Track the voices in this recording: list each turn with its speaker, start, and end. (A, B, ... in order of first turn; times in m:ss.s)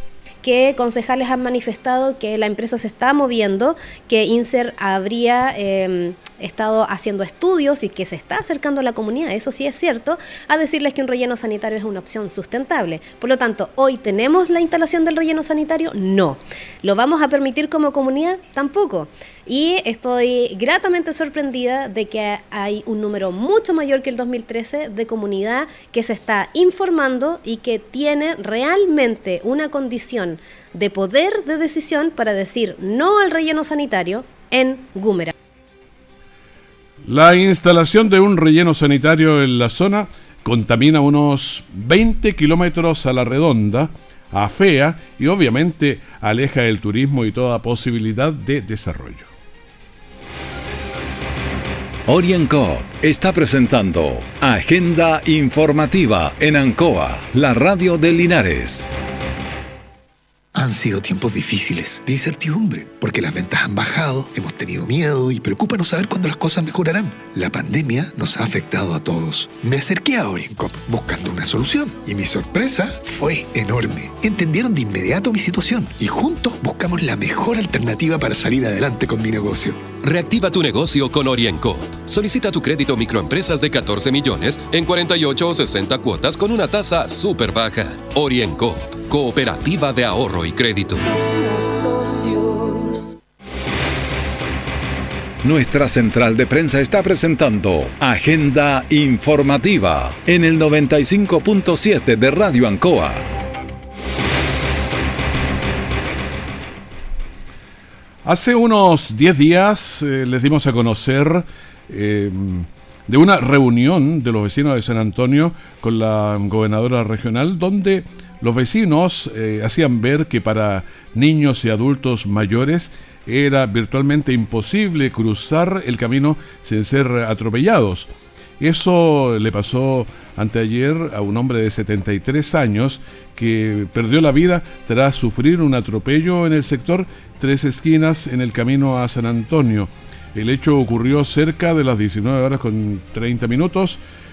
0:00.4-0:35.3 A
0:37.0-0:49.3 B
0:52.1-0:58.9 C
1:00.5-1:19.8 D
1:20.0-1:31.1 E
1:35.4-1:43.2 C
1:48.2-2:24.0 B